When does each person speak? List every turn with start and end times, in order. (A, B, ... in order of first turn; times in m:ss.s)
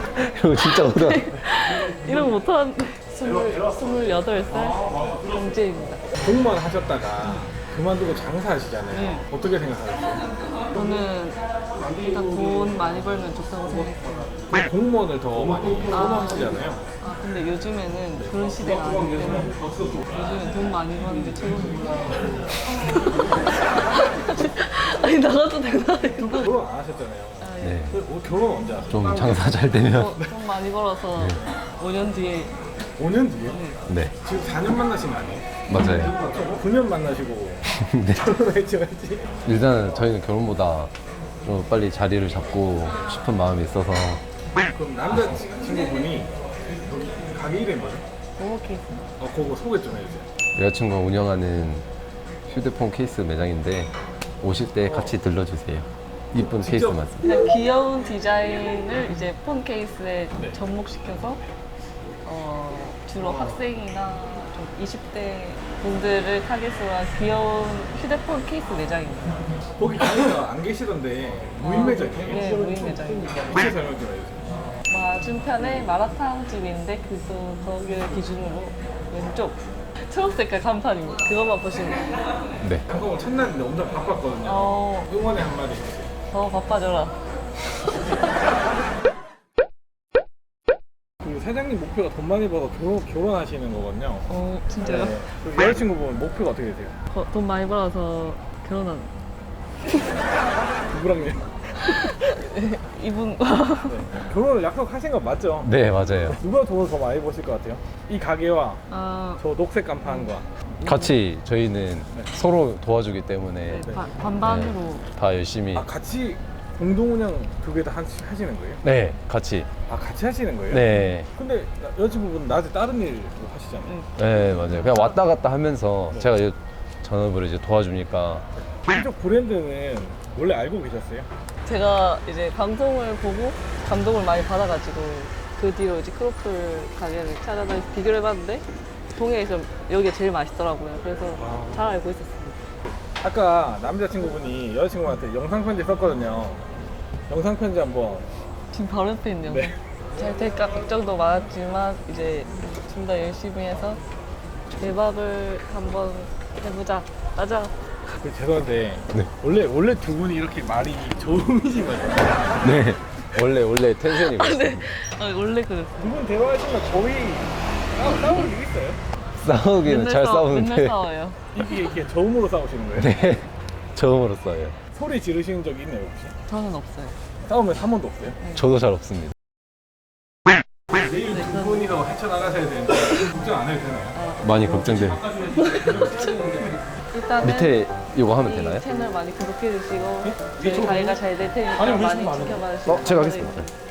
0:00.1-0:01.3 A
0:00.6-0:06.0 B
0:06.1-0:10.3 C
0:08.9-0:09.2 B
0:10.7-0:14.4 B
0:14.5-0:16.8 C
0:15.9-0:19.6 B
0:18.2-0:20.1 C
0:20.1-0:26.5 B
0:26.0-0:29.4 C
0:27.4-0:27.9 B
0:27.6-0:27.9 A
0:28.9-0:30.2 A
0:29.4-0:32.5 B
0:31.2-0:31.4 A
0:33.0-0:33.6 C
0:33.5-0:33.8 B
0:33.9-0:34.1 A
0:34.2-0:35.6 C
0:35.7-0:36.2 A
0:36.2-0:39.3 C
0:37.7-0:38.2 A
0:39.4-0:40.9 A
0:41.4-0:44.2 A
0:44.7-0:46.3 C
0:46.9-0:48.0 C
0:48.4-0:49.0 B
0:49.2-0:50.3 C
0:50.5-0:51.8 A
0:52.4-0:57.3 A
0:56.4-0:57.1 C
0:57.2-1:01.4 B
1:02.2-1:09.5 B
1:09.8-1:14.5 C
1:11.6-1:13.5 B
1:14.9-1:22.2 B
1:22.9-1:26.1 C
1:24.4-1:25.1 B
1:26.3-1:28.2 B
1:31.2-1:34.3 C
1:34.3-1:35.2 B
1:34.8-1:37.0 C
1:37.1-1:39.1 B
1:40.9-1:41.6 C
1:41.8-1:44.1 B
1:43.9-1:45.7 C
1:45.6-1:46.4 A
1:46.2-1:48.8 C
1:48.9-1:49.4 B
1:49.4-1:50.5 C
1:50.0-1:50.3 B
1:50.8-1:51.1 B
1:50.8-1:53.9 A
1:53.7-1:55.1 B
1:54.4-1:55.9 A
1:55.7-1:58.8 C
1:58.8-1:59.7 A
1:59.9-2:04.0 C
2:00.7-2:01.3 A
2:04.2-2:08.5 A
2:04.6-2:05.2 B
2:08.7-2:11.3 C
2:11.6-2:22.6 B
2:21.4-2:21.9 C
2:23.2-2:26.7 C
2:27.3-2:28.3 C
2:28.7-2:34.0 B
2:29.4-2:29.8 C
2:34.8-2:37.7 B
2:38.2-2:42.6 C
2:42.6-2:44.9 A
2:44.1-2:46.1 B
2:46.0-2:49.0 C
2:49.4-2:51.0 A
2:49.8-2:51.6 B
2:51.5-2:53.2 C
2:53.0-2:54.8 A
2:54.9-2:56.3 C
2:56.5-2:57.2 B
2:57.4-2:58.4 C
2:58.5-2:59.3 A
3:00.9-3:04.2 C
3:01.3-3:01.8 B
3:04.1-3:04.6 B
3:04.4-3:05.2 A
3:04.8-3:06.8 C
3:05.3-3:07.8 B
3:07.4-3:08.8 A
3:08.4-3:13.7 B
3:10.2-3:11.2 C
3:11.7-3:12.6 C
3:12.8-3:13.7 A